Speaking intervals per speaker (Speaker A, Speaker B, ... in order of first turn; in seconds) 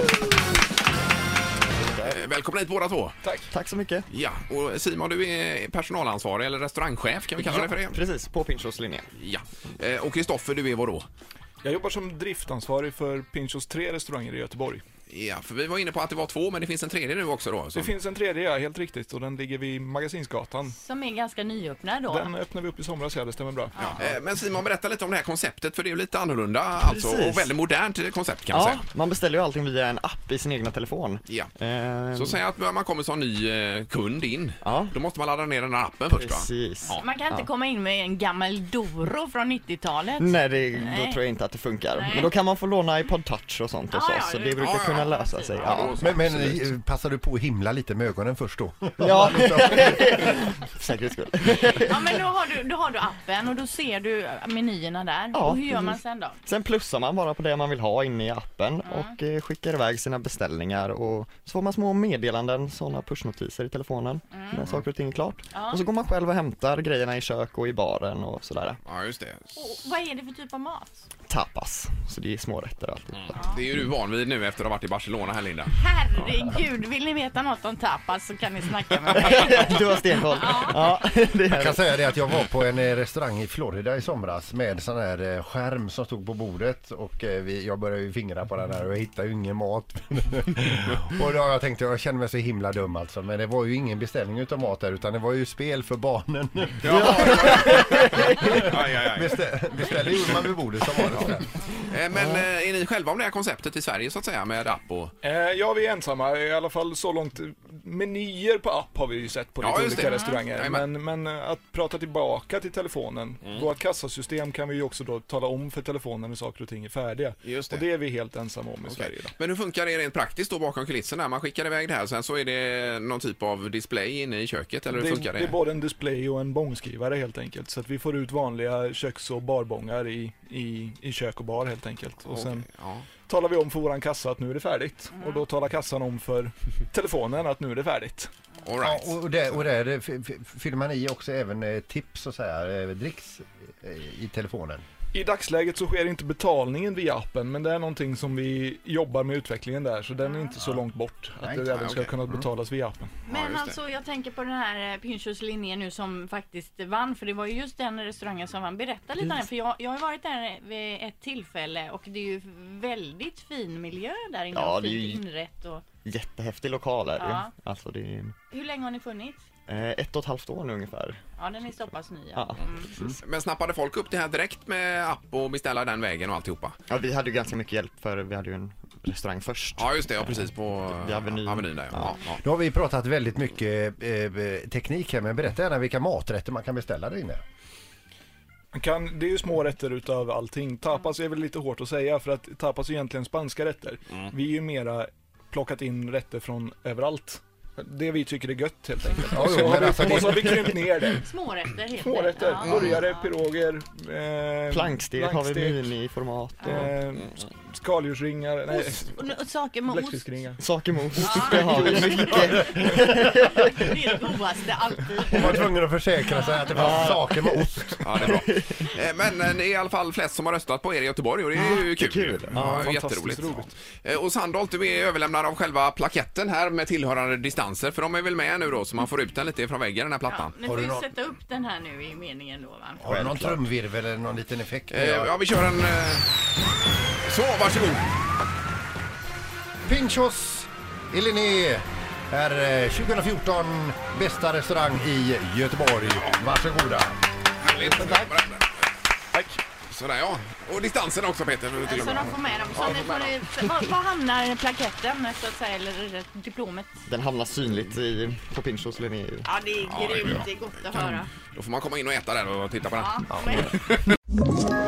Speaker A: 1.8-2.2, 3.5-4.1, 7.4-9.1, 26.8-27.5, 28.5-32.4, 34.6-34.9, 36.1-37.5, 40.2-46.4, 49.0-52.1, 55.3-68.8, 71.3-73.4, 79.1-82.0, 96.9-98.5, 102.1-102.4, 164.5-165.2, 166.0-168.3, 169.7-171.2, 172.3-172.6, 176.9-180.1, 180.9-182.2, 204.7-206.9, 210.6-213.6, 216.7-217.7, 218.3-218.6, 221.5-223.4, 233.1-233.7, 257.1-259.5
Speaker B: 2.0-3.2, 4.1-8.0, 9.2-11.1, 15.1-17.9, 23.9-28.8, 32.1-37.0, 44.6-46.6, 68.8-69.6, 73.1-75.7, 96.8-99.4, 101.0-101.3, 101.9-105.1, 109.6-110.8, 117.5-117.9, 118.8-125.6, 132.3-133.1, 138.6-139.2, 151.7-152.4, 153.3-153.8, 173.2-176.8, 179.8-182.4, 202.6-203.0, 218.0-230.5, 234.9-236.4, 237.2-238.0, 247.6-248.7, 249.9-253.3, 259.8-263.9
Speaker C: 3.2-3.5, 11.6-14.8, 17.7-20.8, 22.1-23.9, 105.2-119.3, 124.9-132.7, 133.3-138.3, 145.1-153.1, 188.7-201.3, 202.0-205.9, 206.6-210.6, 211.2-212.5, 222.5-223.7, 249.3-249.6
Speaker D: 20.7-22.3, 23.8-24.0, 36.9-41.2, 41.9-42.3, 43.9-46.0, 51.7-56.4, 58.8-59.1, 64.3-64.6, 65.5-65.8, 69.5-71.0, 75.7-81.0, 110.0-110.4, 135.2-135.4, 150.2-150.5, 153.2-165.8, 167.2-167.5, 168.5-169.4, 171.4-172.9, 201.1-203.3, 208.7-210.2, 211.2-215.7, 216.3-217.0, 230.3-233.0, 251.8-256.9, 259.4-261.3, 262.9-263.7
Speaker E: 46.0-50.5, 81.5-101.5, 138.8-144.8, 182.3-187.4, 199.3-200.7, 212.4-213.3, 215.3-218.3, 230.6-231.1, 233.0-235.3, 239.8-247.1